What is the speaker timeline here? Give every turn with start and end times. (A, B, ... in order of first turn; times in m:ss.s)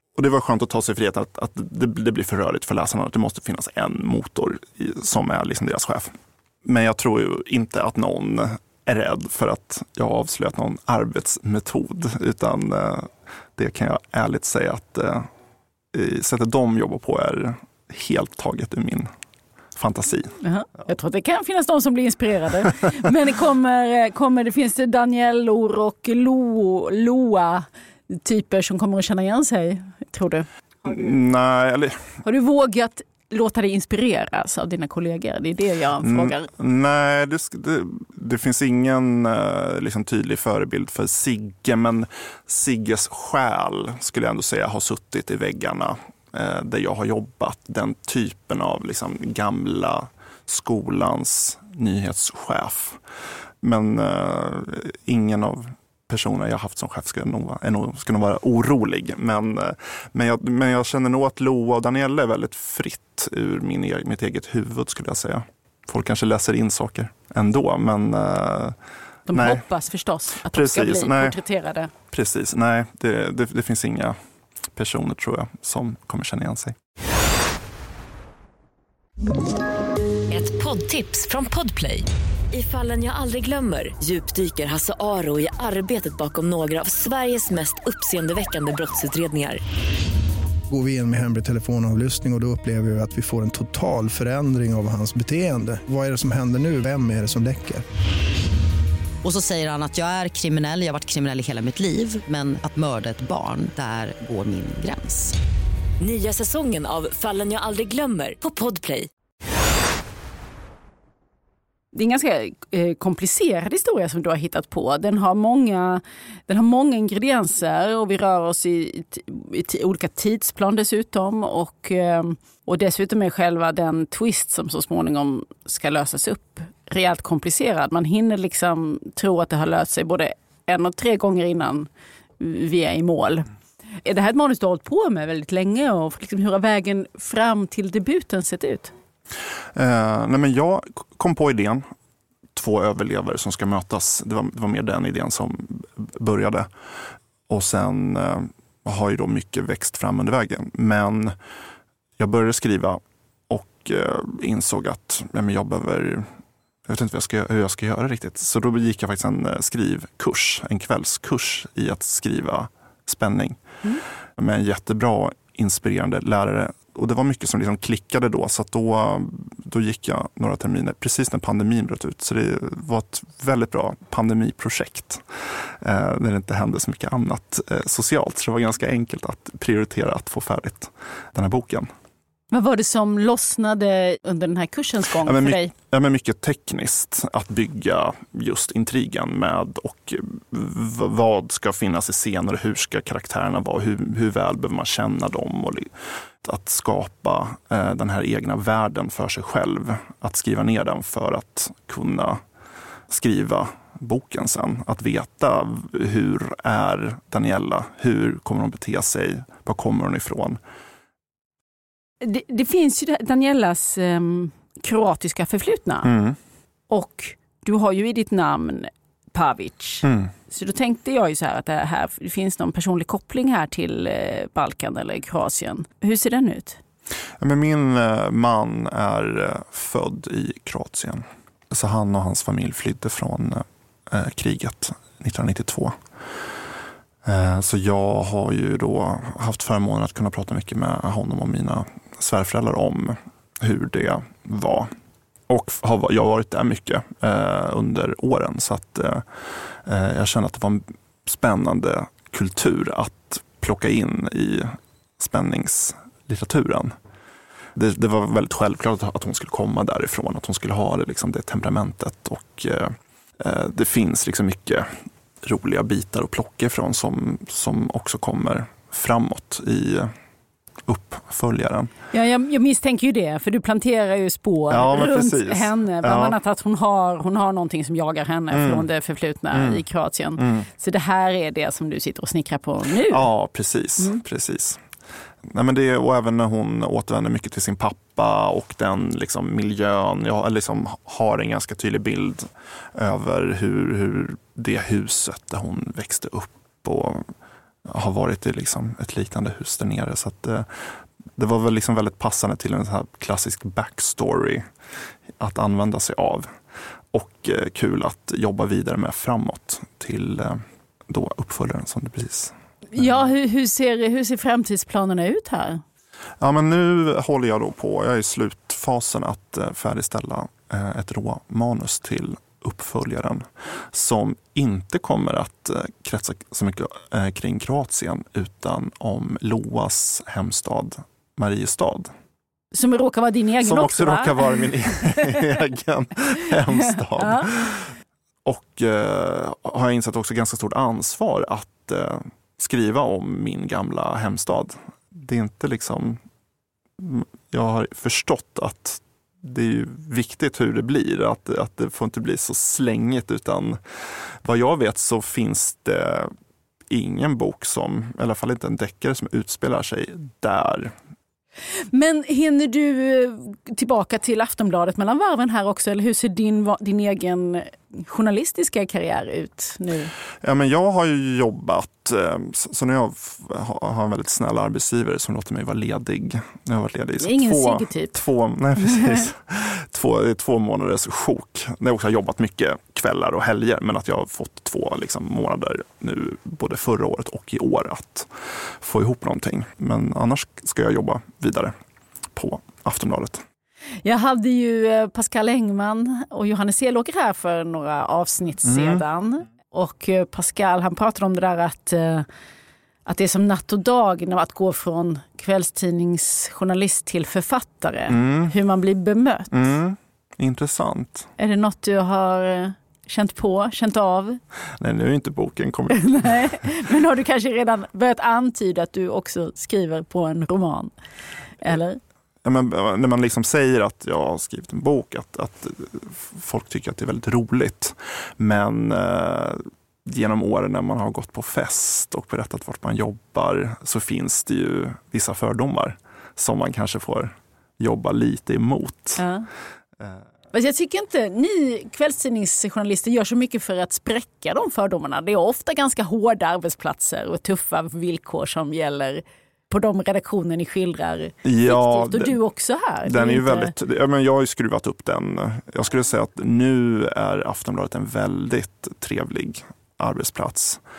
0:00.2-0:06.1 A
0:06.6-0:15.3 A
0:15.9-0:19.1 A
0:19.8-0:20.3 A
0:20.4-0:31.0 B
0:30.8-0:31.9 A
0:32.2-0:36.5 B
0:36.0-0:53.0 A
0:53.6-1:08.8 A
1:09.3-1:11.9 B
1:09.3-1:09.6 A
1:10.4-1:11.4 A
1:12.1-1:14.2 A
1:14.7-1:16.8 A
1:20.3-1:29.6 C
1:30.7-1:37.8 D
1:39.2-1:45.4 E
1:46.0-1:49.1 C
1:51.9-2:13.4 B
2:14.0-2:18.9 B
2:19.7-2:21.9 A
2:22.5-2:26.7 A
2:27.5-2:31.3 A
2:32.2-2:36.3 A
2:36.8-2:43.6 A
2:44.4-3:01.9 A
3:02.5-3:05.7 B
3:05.1-3:22.4 A
3:23.1-3:30.6 A
3:32.2-3:36.1 B
3:36.0-3:36.4 A
3:36.9-3:46.8 B
3:40.0-3:40.3 A
3:47.4-3:56.0 A
3:57.2-4:04.9 A
4:05.5-4:16.9 A
4:17.7-4:24.9 A
4:25.4-4:30.1 A
4:30.9-4:31.9 A
4:32.1-4:43.3 B
4:34.7-4:36.4 A
4:38.5-4:38.9 A
4:39.5-4:39.8 A
4:40.4-4:40.7 A
4:43.1-4:44.8 A
4:45.4-4:57.2 A
4:57.8-5:00.7 A
5:01.4-5:04.6 A
5:05.4-5:06.5 A
5:07.1-5:13.2 A
5:12.9-5:15.8 B
5:16.4-5:32.1 A
5:32.7-5:35.4 B
5:33.6-5:37.9 A
5:36.7-5:37.5 B
5:38.4-5:46.2 A
5:47.0-5:53.8 A
5:54.4-5:56.3 A
5:56.9-6:00.9 A
6:01.9-6:10.1 B
6:10.4-6:31.7 A
6:17.2-6:18.2 B
6:32.3-6:33.4 A
6:34.0-6:42.2 B
6:38.6-6:39.0 A
6:43.0-6:49.7 B
6:48.1-6:48.5 A
6:49.5-6:51.3 A
6:51.4-6:54.4 B
6:54.8-6:56.6 A
6:55.9-7:00.9 B
7:01.6-7:02.0 B
7:02.4-7:19.2 A
7:19.2-7:19.5 B
7:20.5-7:33.7 B
7:31.4-7:32.4 A
7:33.0-7:40.8 A